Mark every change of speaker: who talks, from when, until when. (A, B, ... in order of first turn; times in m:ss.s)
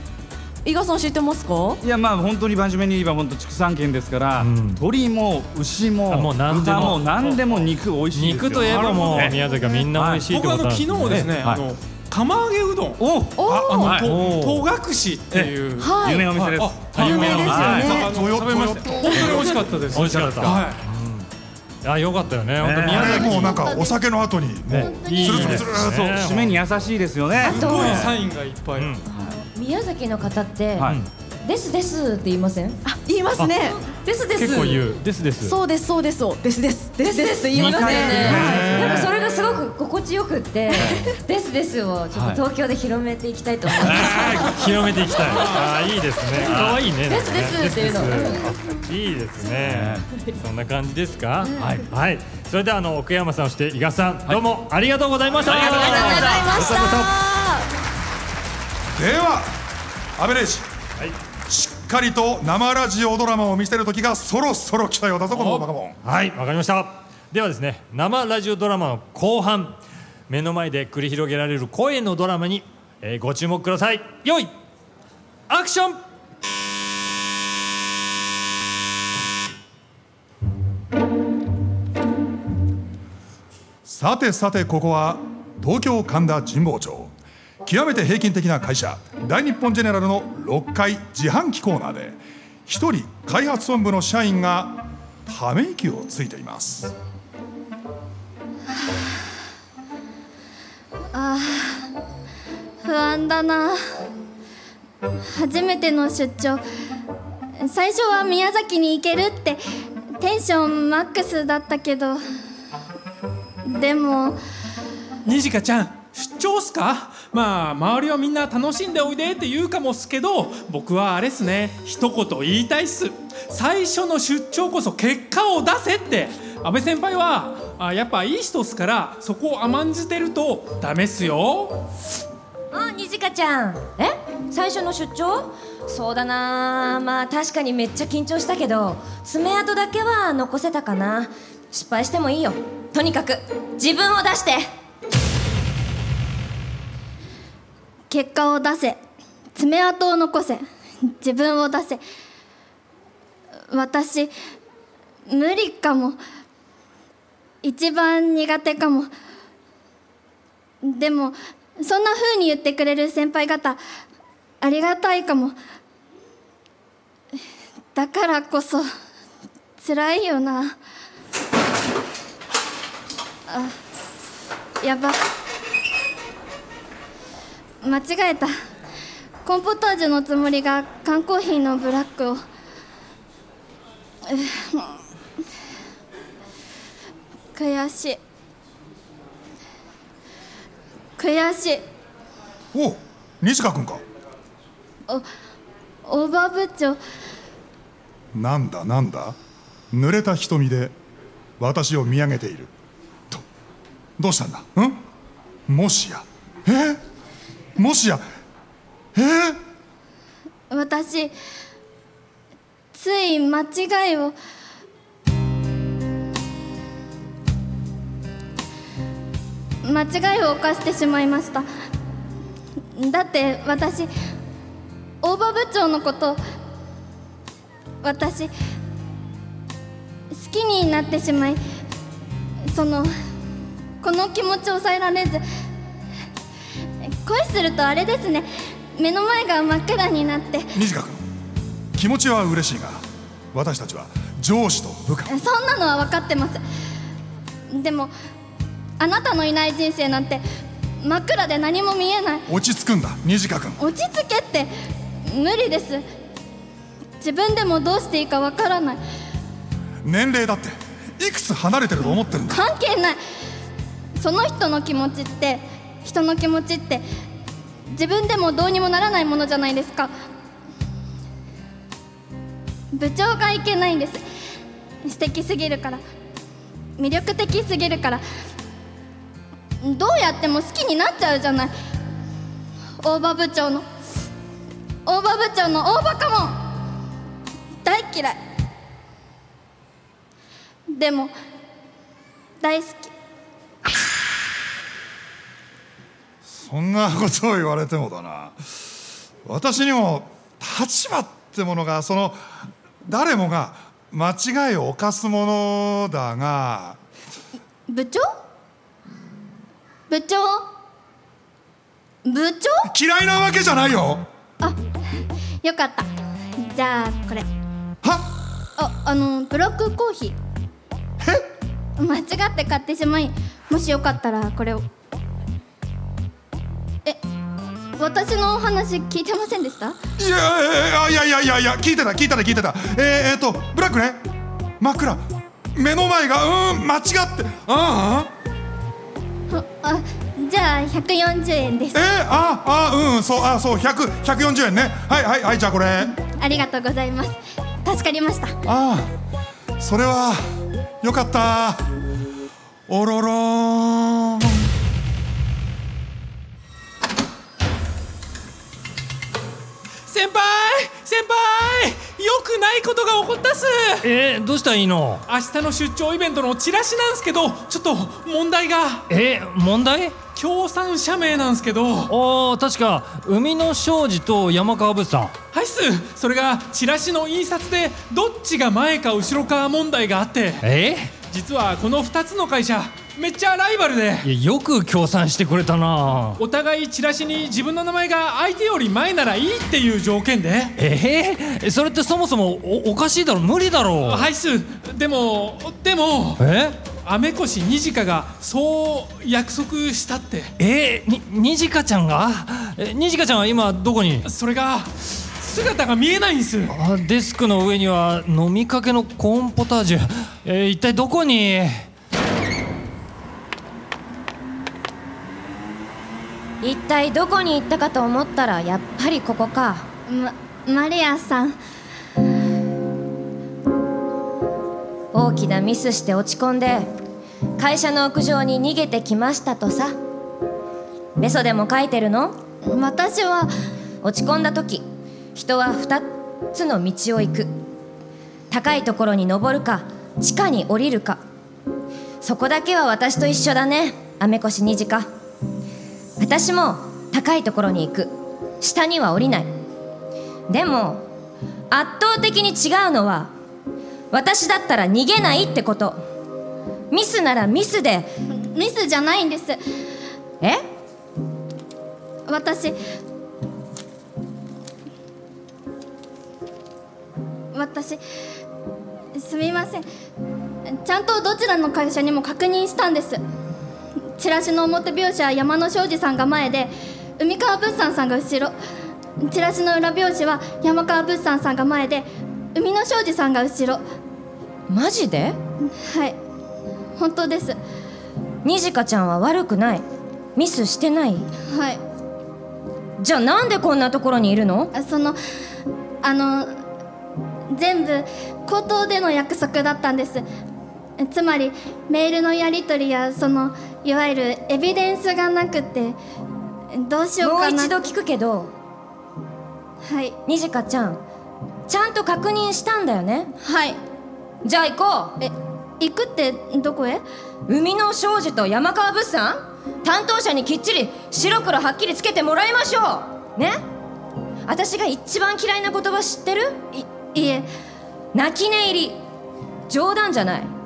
0:00.6-0:01.8 A
0:01.8-0:09.4 B
0:04.4-0:04.8 C
0:06.1-0:07.4 C
0:08.1-0:11.3 C
0:08.7-0:09.3 D
0:09.9-0:10.2 B
0:10.2-0:20.8 D
0:11.1-0:11.6 B
0:13.0-0:14.1 B
0:13.4-0:13.9 A
0:13.4-0:14.0 E
0:14.0-0:14.7 C
0:15.3-0:18.1 B
0:15.8-0:16.3 A
0:16.9-0:17.8 C
0:17.0-0:18.1 A
0:17.8-0:19.7 E
0:19.1-0:20.6 B
0:19.9-0:21.3 C
0:21.8-0:23.6 C
0:22.6-0:23.6 B
0:22.8-0:26.2 E
0:23.5-0:23.9 F
0:24.7-0:28.1 B
0:24.9-0:26.6 C
0:27.4-0:28.2 G
0:27.4-0:29.0 D
0:28.7-0:29.0 C
0:29.1-0:32.8 G
0:29.1-0:29.4 B
0:30.8-0:31.0 B
0:32.8-0:33.8 A
0:33.8-0:34.8 G
0:34.3-0:35.6 C
0:35.4-0:38.8 A
0:37.0-0:44.5 G
0:37.6-0:39.1 B
0:38.3-0:39.0 E
0:40.7-0:41.1 B
0:43.8-0:57.1 C
0:43.8-0:44.4 B
0:45.3-0:45.7 D
0:46.4-0:46.8 B
0:47.1-0:48.5 G
0:49.6-0:50.0 B
0:51.4-0:51.8 G
0:51.6-0:51.9 B
0:55.4-0:56.7 B
0:55.6-0:57.7 A
0:55.8-0:56.5 G
0:58.9-0:59.5 E
1:00.2-1:00.7 E
1:01.5-1:06.0 E
1:05.3-1:05.7 D
1:06.0-1:14.5 C
1:15.5-1:16.0 C
1:23.8-1:27.1 E
1:27.6-1:36.9 E
1:41.1-1:41.9 F
1:42.8-1:43.8 F
1:45.3-1:46.6 F
1:47.6-1:49.6 F
1:50.2-1:52.2 F
1:53.6-1:54.4 F
1:55.2-2:11.8 D
2:12.7-2:24.7 G
2:28.1-2:29.0 F
2:29.5-2:32.0 F
2:33.7-2:34.3 F
2:35.3-2:36.2 F
2:37.6-2:39.1 F
2:40.8-2:43.8 F
2:44.6-2:45.6 F
2:47.9-2:48.9 F
2:49.8-2:50.8 F
2:53.5-2:53.7 F
2:54.8-2:55.2 F
2:57.8-2:58.5 F
2:59.4-3:02.4 F
3:04.2-3:05.0 F
3:07.5-3:08.2 F
3:11.2-3:11.8 F
3:12.7-3:14.0 E
3:16.0-3:17.0 F
3:18.3-3:19.4 E
3:19.9-3:20.9 E
3:21.6-3:22.7 E
3:24.2-3:25.0 E
3:25.7-3:27.0 E
3:27.8-3:28.2 E
3:29.1-3:29.6 E
3:30.7-3:31.3 F
3:32.9-3:34.4 F
3:39.8-3:41.7 F
3:43.0-3:44.1 F
3:45.2-3:46.4 F
3:48.0-3:48.5 F
3:50.3-3:51.6 F
3:52.7-3:53.1 F
3:54.0-3:55.4 F
3:57.2-4:00.7 F
4:00.7-4:01.2 E
4:01.9-4:03.0 E
4:03.5-4:05.3 E
4:05.3-4:06.6 F
4:07.7-4:08.1 F
4:09.0-4:10.4 F
4:11.0-4:12.4 F
4:12.5-4:13.8 E
4:13.8-4:14.7 F
4:15.2-4:16.0 F
4:17.2-4:19.0 F
4:20.0-4:22.6 E
4:22.5-4:23.2 F
4:24.2-4:27.0 F
4:27.9-4:30.1 F
4:32.9-4:34.2 F
4:35.0-4:36.0 F
4:37.0-4:38.2 F
4:39.8-4:41.7 F
4:43.0-4:43.8 F
4:45.0-4:46.6 F
4:47.8-4:48.4 F
4:50.9-4:51.3 F
4:52.6-4:53.1 F
4:56.4-4:58.6 E
4:59.4-5:02.4 E
5:03.0-5:07.0 E
5:07.9-5:08.3 F
5:10.1-5:10.7 F
5:12.2-5:12.9 F
5:12.9-5:14.2 E
5:15.6-5:17.5 F
5:18.0-5:18.3 E
5:18.8-5:20.4 F
5:21.2-5:21.4 E
5:22.0-5:24.9 F
5:28.0-5:30.0 F
5:30.2-5:34.2 E
5:34.8-5:38.3 E
5:39.5-5:42.0 F
5:41.9-5:46.1 E
5:46.2-5:48.5 F
5:48.7-5:49.1 E
5:49.8-5:50.4 E
5:51.0-5:51.9 E
5:52.9-5:54.6 E
6:00.1-6:04.0 D
6:04.0-6:05.2 C
6:05.3-6:09.0 D
6:09.1-6:10.2 C
6:10.4-6:12.1 D
6:12.1-6:15.3 C
6:15.5-6:20.6 D
6:20.6-6:21.1 C
6:21.3-6:24.3 D
6:24.2-6:26.4 C
6:26.4-6:30.7 D
6:30.8-6:34.3 C
6:34.0-6:36.4 D
6:36.4-6:36.8 C
6:36.9-6:40.5 D
6:40.6-6:44.3 C
6:44.2-6:46.7 D
6:46.7-6:51.9 C
6:56.6-6:59.9 G
7:00.1-7:01.6 F
7:05.1-7:06.9 G
7:07.6-7:09.9 G
7:11.2-7:12.4 G
7:12.6-7:13.5 F
7:14.0-7:17.5 G
7:18.5-7:21.2 G
7:22.2-7:25.1 G
7:26.2-7:29.5 G
7:30.5-7:31.0 G
7:31.7-7:33.3 G
7:34.1-7:36.0 G
7:36.9-7:38.1 G
7:38.4-7:39.6 F
7:42.3-7:42.8 F
7:47.5-7:48.0 F
7:49.1-7:49.8 F
7:50.7-7:53.2 F
7:54.2-7:58.5 F
7:59.2-8:03.8 F
8:04.7-8:05.4 G
8:05.8-8:06.2 F
8:07.0-8:07.6 F
8:08.4-8:09.8 G
8:10.4-8:11.3 G
8:11.5-8:11.8 F
8:13.0-8:14.7 G
8:14.7-8:15.2 F
8:16.0-8:16.6 F
8:17.5-8:20.2 F
8:21.0-8:26.0 F
8:26.7-8:27.9 F
8:27.2-8:28.5 G
8:29.8-8:30.2 F
8:30.2-8:31.0 G
8:31.7-8:33.3 G
8:33.4-8:33.8 F
8:34.4-8:35.2 G
8:35.2-8:37.0 F
8:37.5-8:43.6 G
8:44.5-8:46.6 G
8:46.7-8:47.5 F
8:48.1-8:49.0 G
8:49.7-8:50.5 G